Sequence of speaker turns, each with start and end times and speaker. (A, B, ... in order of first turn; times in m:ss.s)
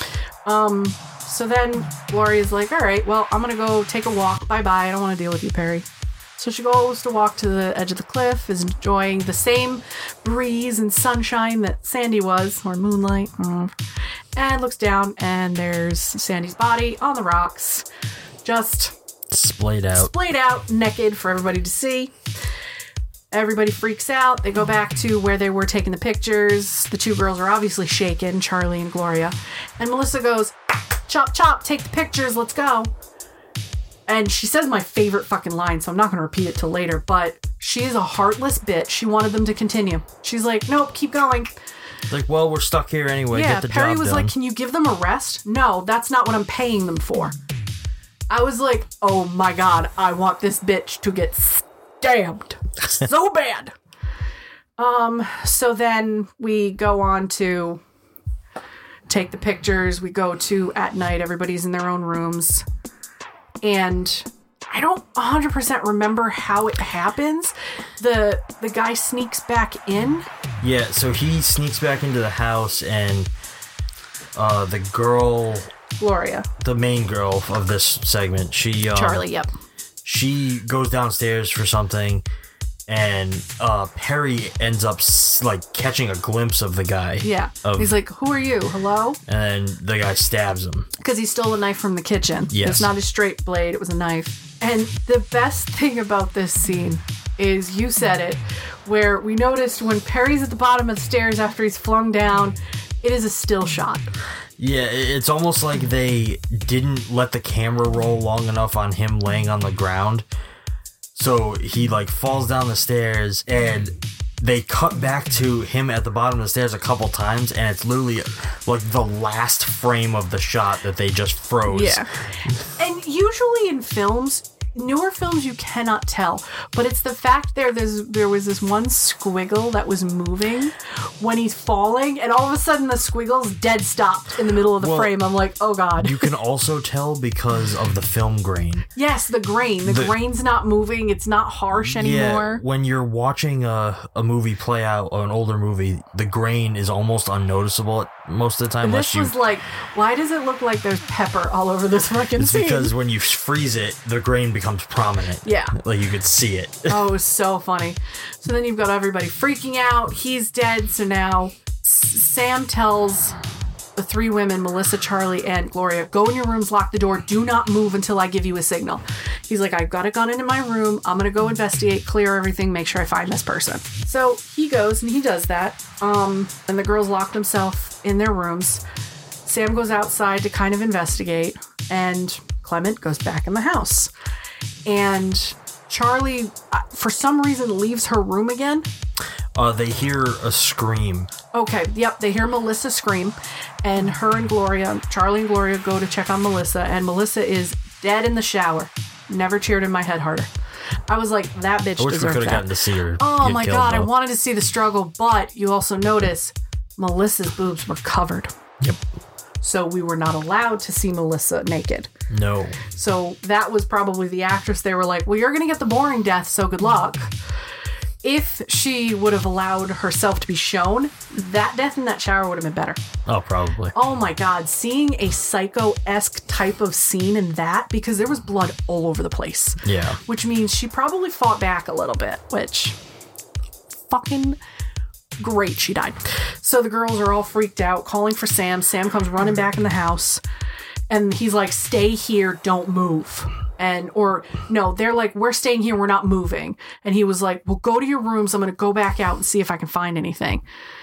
0:00.4-0:05.8 A
0:06.4-0:13.8 A
0:14.4-0:17.8 A
0:18.4-0:18.9 A
0:19.3-0:20.1 B
0:19.9-0:22.2 A
0:23.3-0:30.5 A
0:31.1-0:32.9 A
0:34.1-0:41.5 A
0:42.1-0:44.3 B
0:43.3-0:47.3 A
0:48.3-0:53.7 A
0:54.8-0:57.8 A
0:59.1-1:02.6 A
1:03.6-1:10.2 A
1:10.6-1:13.3 B
1:14.3-1:15.7 B
1:16.0-1:16.5 A
1:16.6-1:19.2 B
1:18.9-1:19.5 A
1:20.0-1:22.2 B
1:22.9-1:27.9 B
1:27.2-1:29.2 A
1:29.3-1:30.9 B
1:31.0-1:44.1 A
1:32.5-1:32.9 B
1:44.6-1:50.2 B
1:51.1-2:02.0 B
2:01.7-2:02.1 A
2:02.7-2:16.3 A
2:14.8-2:15.2 B
2:16.0-2:18.9 B
2:18.9-2:22.6 A
2:19.8-2:20.1 B
2:21.7-2:29.4 B
2:28.8-2:32.9 A
2:32.4-2:37.0 B
2:35.4-2:35.7 A
2:36.9-2:43.4 A
2:44.0-2:58.8 A
2:59.4-3:04.1 A
3:04.8-3:08.9 A
3:09.5-3:11.3 B
3:11.5-3:20.5 A
3:21.1-3:28.5 A
3:22.0-3:24.1 B
3:29.6-3:32.1 A
3:32.3-3:32.8 B
3:32.9-3:37.3 A
3:38.2-3:43.0 A
3:43.3-3:43.9 B
3:43.9-3:53.0 A
3:49.8-3:50.2 B
3:54.1-3:54.6 A
3:55.4-4:00.4 A
4:01.1-4:10.6 A